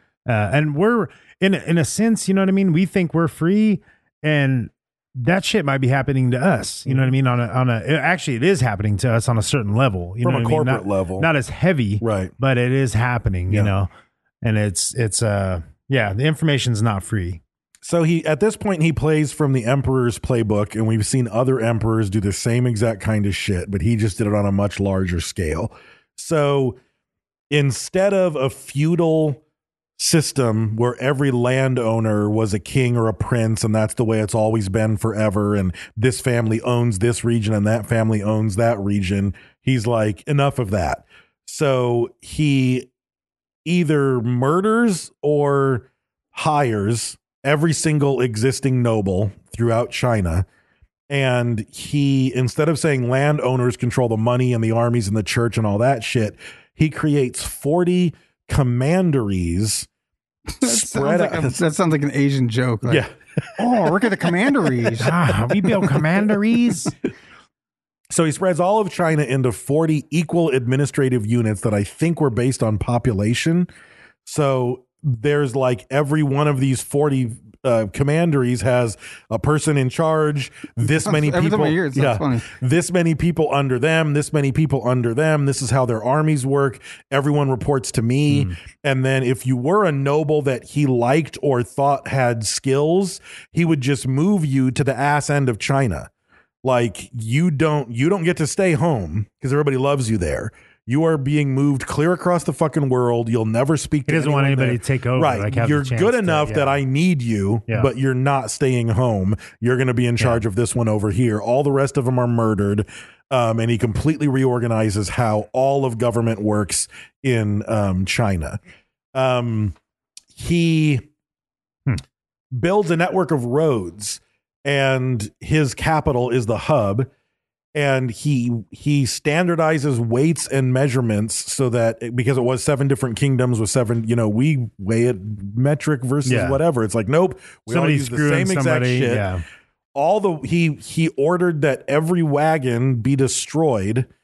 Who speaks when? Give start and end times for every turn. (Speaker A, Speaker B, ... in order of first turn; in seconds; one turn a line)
Speaker A: 0.2-13.9
Speaker B: 6.9-7.1
Speaker B: 10.2-11.3
Speaker B: 12.0-12.3
Speaker A: 14.4-17.4
Speaker B: 17.8-26.8
Speaker B: 27.5-29.4
Speaker B: 30.0-42.9
Speaker B: 43.6-50.5
Speaker B: 51.1-59.9
Speaker C: 60.5-63.0
Speaker B: 60.6-61.6
Speaker B: 62.8-64.9
Speaker C: 63.6-65.1
Speaker A: 65.0-66.9
Speaker B: 68.1-73.7
Speaker B: 74.2-96.1
Speaker C: 80.8-82.5
Speaker A: 88.3-88.5
Speaker B: 96.6-118.6
Speaker A: 104.1-106.8
Speaker B: 119.1-119.7
Speaker B: 120.3-121.0
Speaker B: 122.5-127.1
Speaker B: 127.7-139.3
Speaker A: 136.2-136.6
Speaker A: 137.7-139.4
Speaker B: 139.9-144.1